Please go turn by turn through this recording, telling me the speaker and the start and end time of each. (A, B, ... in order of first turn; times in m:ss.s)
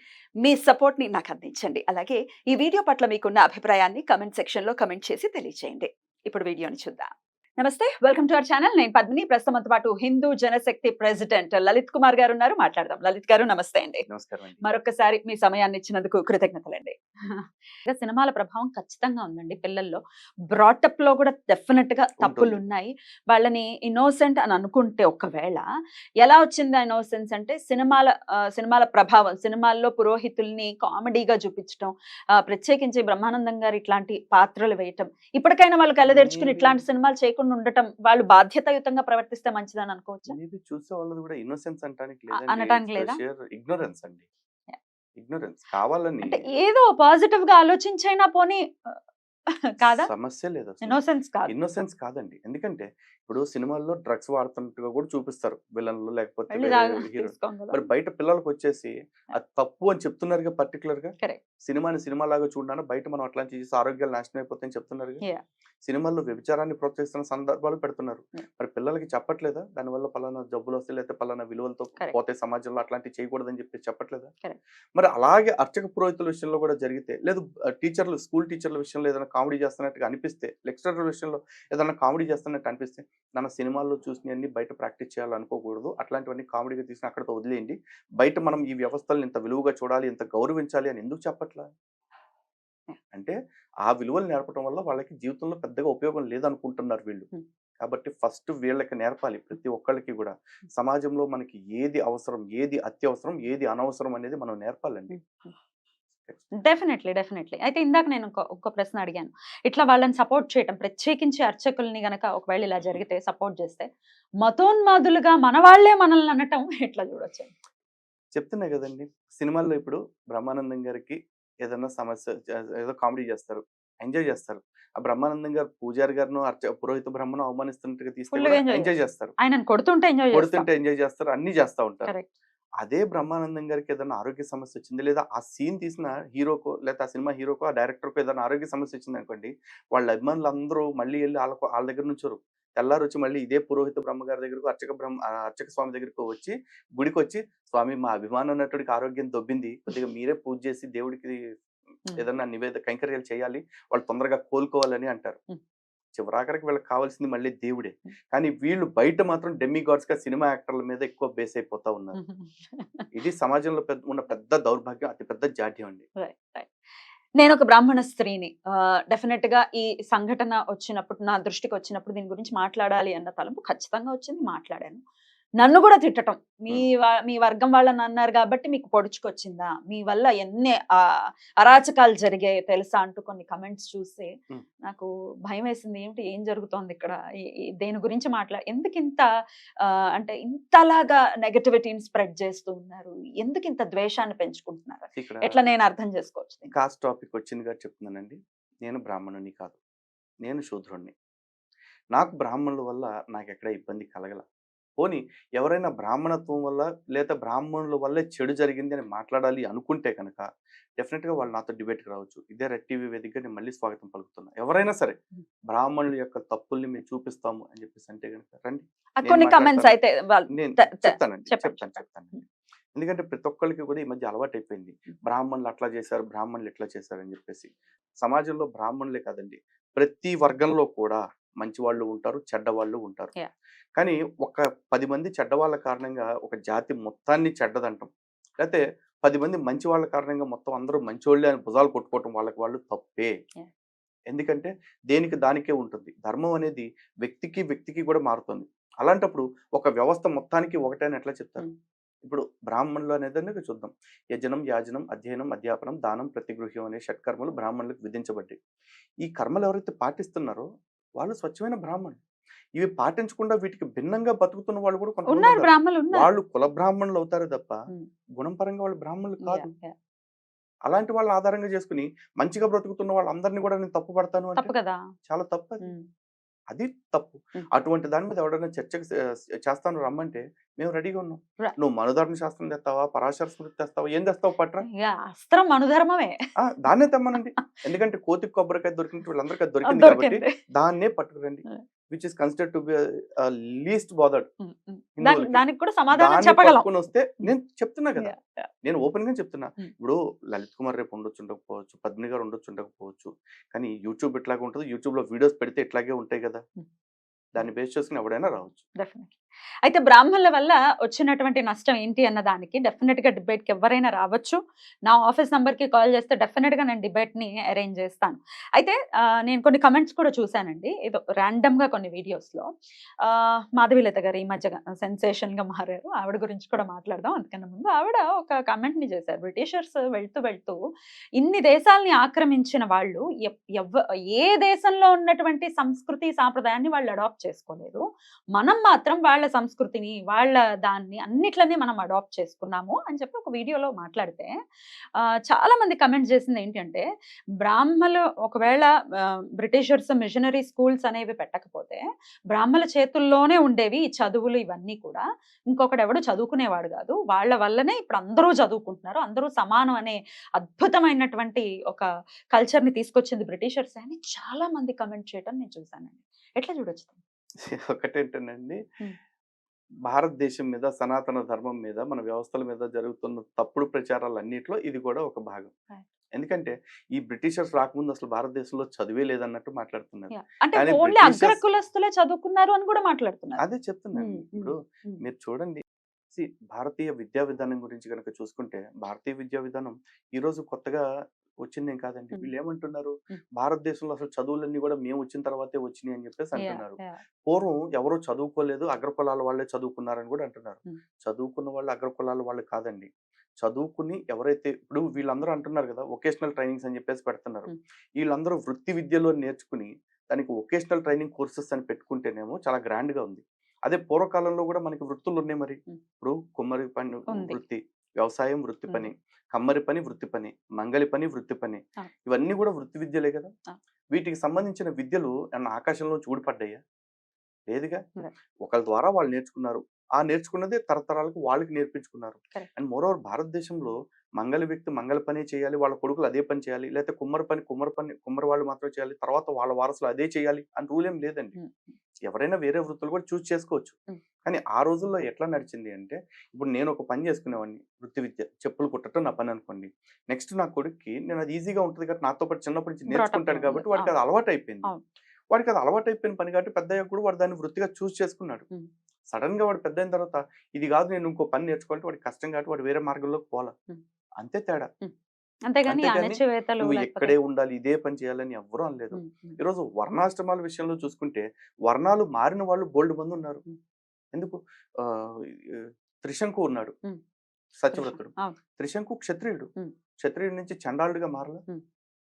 0:00.4-0:14.0 A
0:14.1-0:14.6 B
0:14.6-0:25.6 A
0:22.2-0:22.6 B
0:26.2-0:40.4 A
0:36.0-0:36.8 B
0:40.3-0:44.2 B
0:42.4-0:43.2 A
0:45.2-0:46.4 B
0:46.2-0:49.0 A
0:49.8-0:50.1 A
0:49.8-1:01.1 B
0:50.8-0:51.5 A
0:56.5-0:57.9 A
1:01.6-1:05.2 B
1:05.9-1:14.3 B
1:15.0-1:31.7 B
1:33.1-1:37.3 B
1:37.8-1:45.2 B
1:45.1-1:45.5 A
1:46.6-1:53.9 A
1:54.4-1:57.5 A
1:58.3-2:09.3 B
2:08.3-2:10.6 A
2:10.3-2:12.1 B
2:12.8-2:31.4 B
2:32.1-2:35.4 B
2:36.2-2:42.2 B
2:42.1-2:43.1 A
2:43.1-2:46.1 B
2:46.2-2:46.7 A
2:47.4-2:55.0 A
2:55.6-3:04.3 A
3:04.9-3:07.2 A
3:07.8-3:09.2 A
3:09.8-3:16.7 A
3:15.2-3:15.5 B
3:16.7-3:19.8 B
3:20.4-3:21.1 B
3:22.1-3:24.4 B
3:25.0-3:30.4 B
3:31.0-3:35.2 B
3:35.7-3:39.9 B
3:39.2-3:42.4 A
3:40.5-3:42.4 B
3:42.9-3:53.3 B
3:54.0-4:03.3 B
4:04.3-4:11.6 B
4:12.2-4:18.6 B
4:19.2-4:20.6 B
4:21.2-4:22.2 B
4:22.8-4:27.7 B
4:25.3-4:26.3 A
4:28.4-4:29.7 B
4:29.4-4:29.9 A
4:30.9-4:34.7 B
4:34.6-4:35.0 A
4:35.3-4:35.9 B
4:36.7-4:44.8 B
4:44.9-4:46.3 A
4:46.6-4:54.5 B
4:49.8-4:50.5 A
4:54.6-4:56.9 A
4:55.2-4:55.6 B
4:56.1-4:58.3 B
4:58.2-4:58.7 A
4:58.8-5:06.6 B
5:07.5-5:08.8 B
5:09.0-5:22.7 A
5:23.2-5:30.8 A
5:31.4-5:38.0 A
5:38.6-5:44.5 A
5:45.2-5:47.1 A
5:47.6-6:07.2 A
6:07.6-6:08.8 B
6:10.1-6:15.7 B
6:16.4-6:21.6 B
6:20.3-6:23.6 A
6:23.6-6:31.0 B
6:24.2-6:25.2 A
6:31.6-6:43.1 B
6:36.6-6:37.2 A
6:43.6-7:03.5 B
6:57.3-6:57.6 A
7:04.1-7:06.8 B
7:07.7-7:08.0 B
7:08.7-7:21.6 B
7:21.6-7:21.9 A
7:22.3-7:34.9 B
7:33.1-7:34.1 A
7:35.5-7:38.6 B
7:39.3-7:43.7 B
7:44.4-7:44.9 B
7:45.7-7:47.4 A
7:45.9-7:53.6 B
7:49.1-7:49.6 A
7:54.3-7:56.9 B
7:57.8-7:59.7 B
7:57.9-7:58.6 A
8:00.2-8:01.6 B